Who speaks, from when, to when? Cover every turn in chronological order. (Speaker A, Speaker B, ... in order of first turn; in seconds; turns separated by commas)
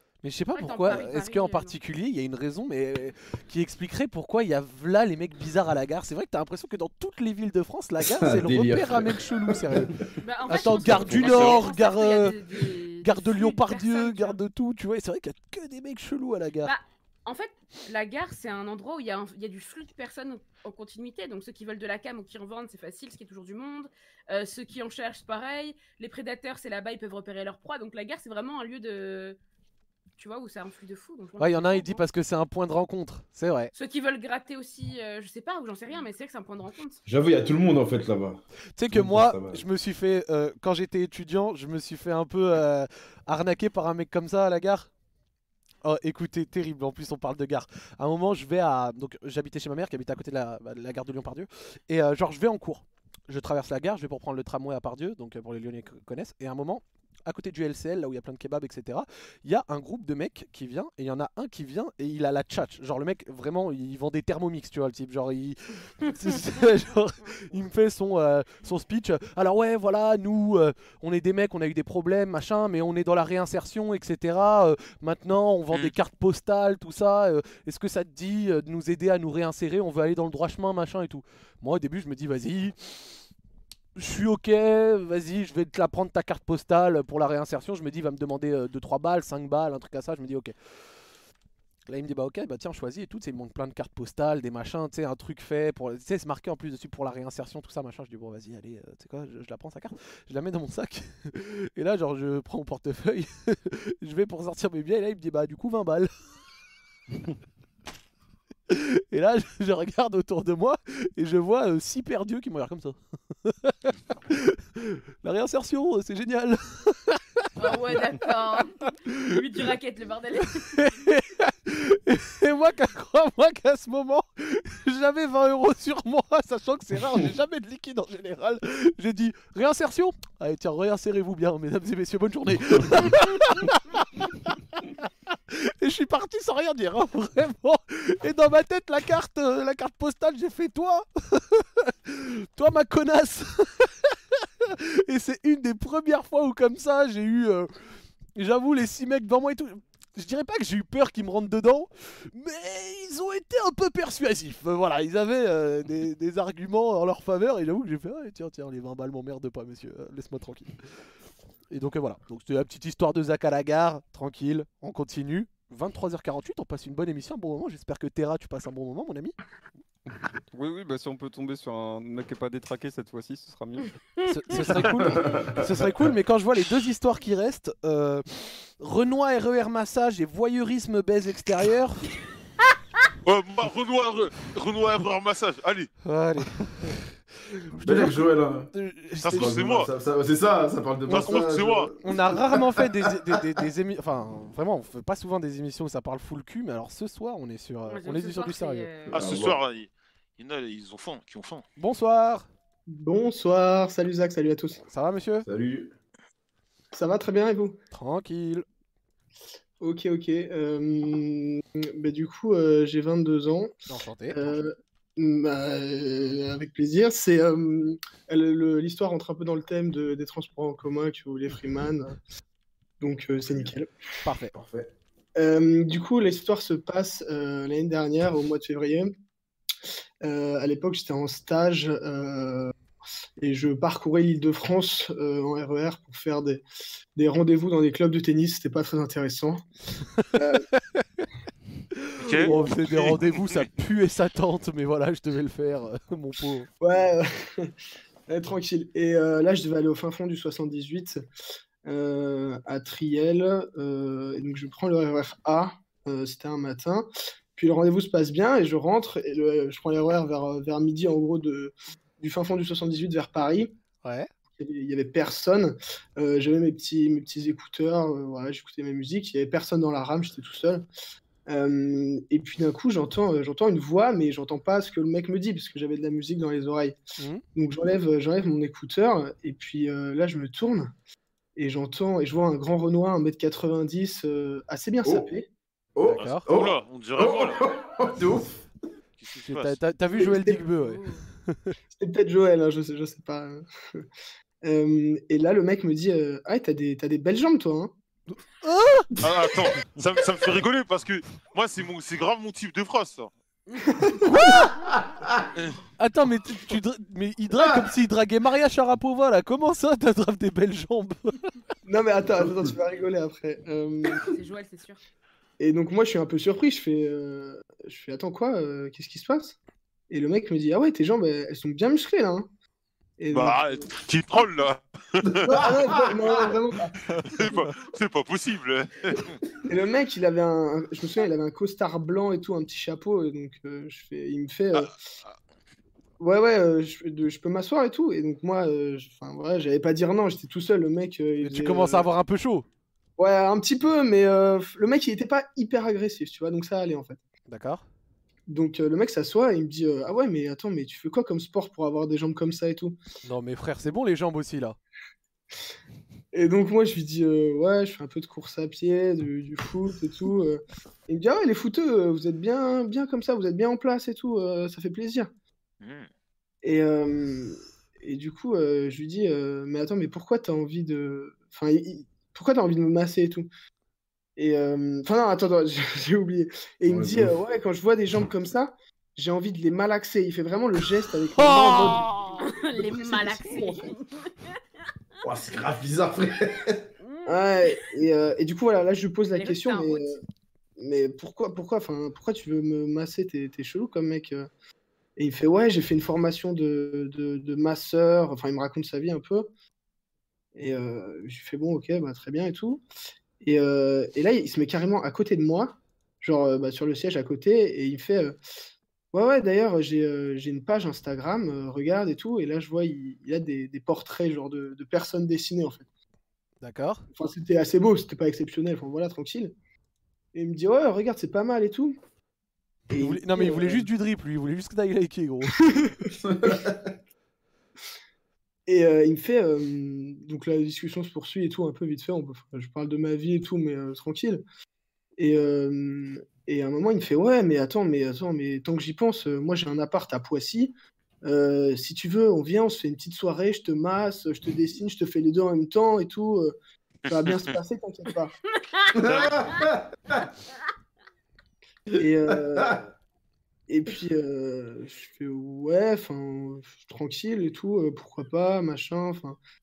Speaker A: 0.2-12.4, Speaker B: 0.5-1.8, Speaker C: 8.0-10.0, Speaker B: 10.2-14.4, Speaker C: 10.9-11.2, Speaker D: 11.2-11.6, Speaker A: 13.0-16.7, Speaker B: 16.6-29.4, Speaker B: 30.2-32.0, Speaker A: 31.4-33.7, Speaker B: 33.7-37.0, Speaker C: 37.0-39.6, Speaker A: 38.8-44.9, Speaker A: 45.8-82.7, Speaker A: 84.0-90.5, Speaker A: 91.9-106.1, Speaker A: 108.7-118.0, Speaker B: 117.5-120.9, Speaker A: 120.6-147.7, Speaker A: 148.3-160.7, Speaker A: 161.7-169.3, Speaker E: 170.5-173.9, Speaker A: 174.3-182.1, Speaker C: 175.1-175.5, Speaker D: 183.2-185.9, Speaker A: 186.0-187.1, Speaker A: 187.7-189.6, Speaker C: 187.8-188.7, Speaker D: 189.2-189.9, Speaker C: 189.3-192.6, Speaker A: 191.1-198.9, Speaker D: 191.1-191.9, Speaker B: 197.9-199.3, Speaker C: 199.1-199.6, Speaker D: 199.1-201.6, Speaker A: 201.8-202.5, Speaker F: 202.9-204.8, Speaker A: 204.9-205.4, Speaker C: 205.4-205.9, Speaker F: 206.9-207.8, Speaker A: 207.9-208.6, Speaker F: 209.8-213.7, Speaker A: 213.9-214.5, Speaker F: 214.3-222.2, Speaker F: 223.0-223.9, Speaker A: 224.2-224.6, Speaker C: 224.5-224.9, Speaker F: 225.3-229.1, Speaker F: 230.2-232.7, Speaker F: 233.4-236.6, Speaker F: 237.2-239.6, Speaker F: 240.3-240.7, Speaker A: 240.8-241.2, Speaker D: 242.2-243.2, Speaker A: 242.3-246.7, Speaker F: 246.8-247.7, Speaker F: 248.3-251.2, Speaker F: 251.8-263.7, Speaker A: 264.0-264.3, Speaker F: 264.6-270.9, Speaker F: 271.5-277.0, Speaker F: 277.5-280.9, Speaker F: 281.6-285.4, Speaker C: 285.9-288.6, Speaker A: 286.1-286.4, Speaker D: 286.1-287.8, Speaker D: 289.2-289.8, Speaker A: 289.4-291.7, Speaker F: 290.2-290.6, Speaker F: 291.9-294.0, Speaker F: 294.6-297.9, Speaker A: 298.3-299.1, Speaker D: 299.2-303.3, Speaker A: 304.3-304.7, Speaker C: 304.9-305.4, Speaker A: 306.0-311.3, Speaker F: 311.9-314.3, Speaker C: 312.4-312.7, Speaker B: 314.3-315.0, Speaker F: 315.6-319.6, Speaker F: 320.1-322.5, Speaker F: 323.2-323.9, Speaker D: 323.3-325.7, Speaker C: 325.4-326.1, Speaker F: 325.4-326.9, Speaker D: 327.3-329.4, Speaker F: 329.7-334.9, Speaker D: 334.7-335.3, Speaker F: 336.2-342.1, Speaker A: 341.4-342.6, Speaker F: 343.2-347.2, Speaker A: 347.5-347.8, Speaker F: 348.5-353.0, Speaker A: 353.2-354.8, Speaker F: 356.3-365.3, Speaker F: 366.6-373.5, Speaker F: 374.4-383.9, Speaker C: 376.9-377.4, Speaker A: 381.4-381.9, Speaker B: 382.4-384.5, Speaker C: 385.2-386.9, Speaker B: 387.0-387.4, Speaker F: 387.2-390.2, Speaker B: 389.3-390.2, Speaker F: 390.8-394.5, Speaker F: 395.2-399.5, Speaker F: 400.6-402.8, Speaker F: 403.4-408.4, Speaker F: 409.1-415.9, Speaker A: 416.6-417.0, Speaker F: 417.1-419.5, Speaker F: 420.3-422.0, Speaker F: 422.9-423.8, Speaker A: 423.0-425.7, Speaker C: 426.2-426.9, Speaker F: 428.7-434.4, Speaker F: 435.2-446.5, Speaker F: 447.1-448.3, Speaker D: 447.1-447.5, Speaker C: 448.9-450.2, Speaker D: 449.1-449.3, Speaker C: 451.9-452.8, Speaker F: 451.9-452.9, Speaker F: 453.7-459.4